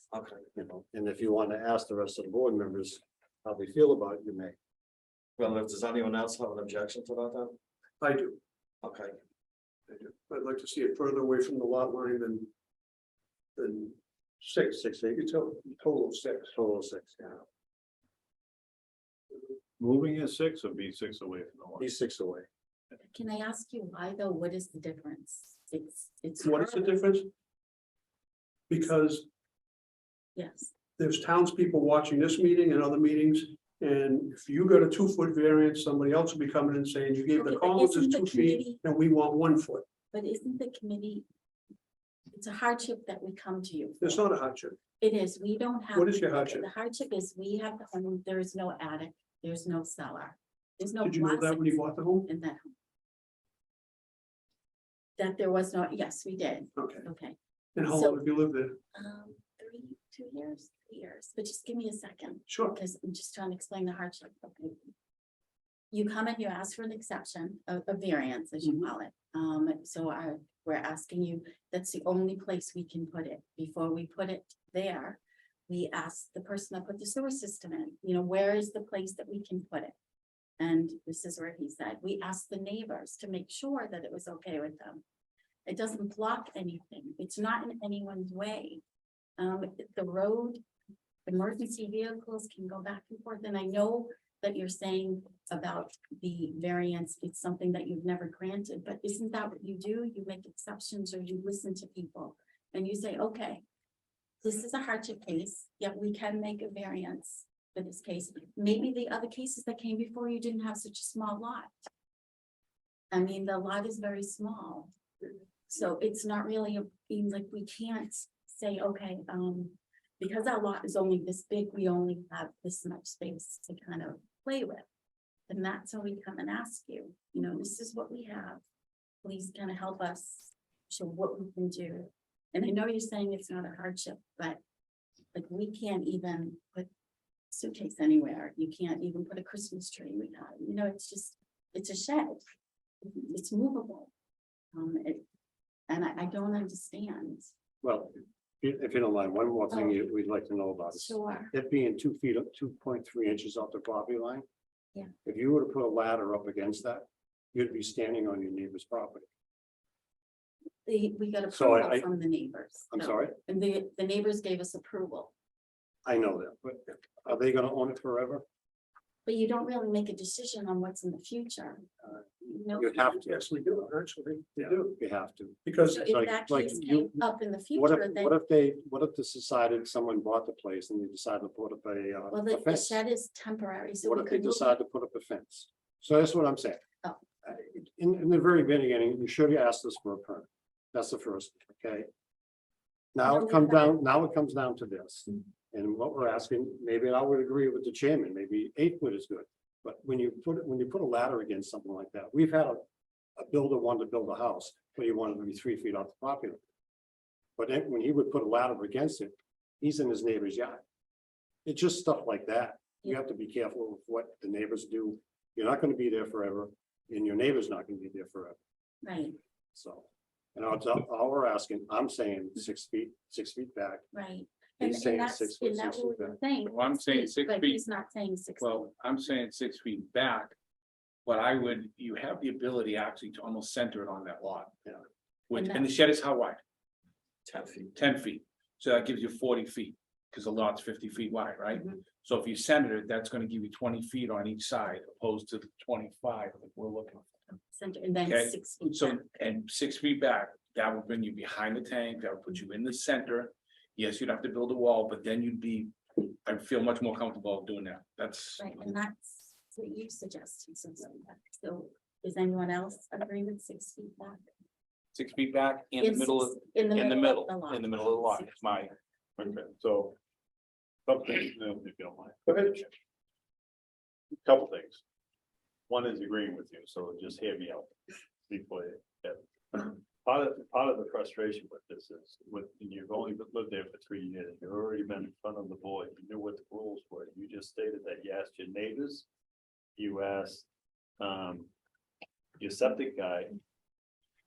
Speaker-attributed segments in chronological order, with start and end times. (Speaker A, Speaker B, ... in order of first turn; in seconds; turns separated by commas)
Speaker A: 0.1-0.4, Speaker B: 0.5-4.5, Speaker A: 5.4-7.6, Speaker C: 8.1-8.4, Speaker A: 8.8-9.2, Speaker C: 10.0-12.5, Speaker C: 13.6-16.5, Speaker B: 14.7-15.2, Speaker B: 16.5-17.4, Speaker D: 19.8-21.9, Speaker B: 21.8-22.5, Speaker E: 23.0-26.9, Speaker C: 26.4-27.3, Speaker C: 28.7-29.3, Speaker E: 30.4-30.7, Speaker C: 31.0-39.9, Speaker E: 37.3-38.8, Speaker E: 40.1-41.3, Speaker E: 42.3-44.2, Speaker C: 44.0-44.8, Speaker E: 45.0-52.8, Speaker C: 46.0-46.6, Speaker C: 51.0-52.3, Speaker E: 55.2-58.2, Speaker C: 56.8-57.0, Speaker C: 57.8-58.8, Speaker E: 58.9-64.9, Speaker C: 62.5-62.8, Speaker E: 65.9-80.0, Speaker E: 80.6-85.0, Speaker E: 85.7-88.8, Speaker E: 89.4-90.6, Speaker E: 91.2-103.6, Speaker E: 104.4-111.9, Speaker E: 113.1-114.9, Speaker E: 115.7-124.8, Speaker E: 125.5-128.6, Speaker E: 129.2-134.6, Speaker E: 135.3-136.9, Speaker E: 137.5-142.4, Speaker E: 143.1-144.1, Speaker E: 144.7-145.2, Speaker E: 145.9-147.5, Speaker B: 147.8-154.4, Speaker E: 149.7-150.0, Speaker E: 150.9-151.5, Speaker B: 155.2-159.3, Speaker E: 160.8-165.3, Speaker B: 161.5-162.1, Speaker B: 162.9-163.4, Speaker B: 166.1-168.4, Speaker E: 169.3-171.9, Speaker B: 172.0-173.9, Speaker E: 172.4-173.2, Speaker C: 173.3-174.9, Speaker B: 174.6-183.0, Speaker C: 175.7-176.0, Speaker E: 175.9-178.4, Speaker E: 182.3-184.8, Speaker B: 184.0-186.8, Speaker B: 187.4-192.1, Speaker B: 193.1-202.8, Speaker E: 193.3-194.0, Speaker B: 203.4-206.6, Speaker B: 207.6-210.8, Speaker B: 211.7-218.6, Speaker E: 219.0-219.4, Speaker B: 219.7-224.0, Speaker E: 224.1-228.9, Speaker B: 224.8-226.4, Speaker F: 226.7-227.8, Speaker F: 228.6-230.6, Speaker F: 231.2-234.8, Speaker F: 235.5-236.6, Speaker E: 235.5-235.9, Speaker A: 237.5-237.9, Speaker F: 237.9-247.6, Speaker E: 247.7-249.2, Speaker F: 248.2-258.8, Speaker E: 258.6-264.4, Speaker F: 265.1-268.9, Speaker E: 266.0-268.9, Speaker D: 269.4-270.2, Speaker D: 271.1-272.9, Speaker D: 274.4-275.0, Speaker D: 275.9-289.3, Speaker D: 290.0-290.7, Speaker D: 291.2-291.7, Speaker D: 292.6-293.6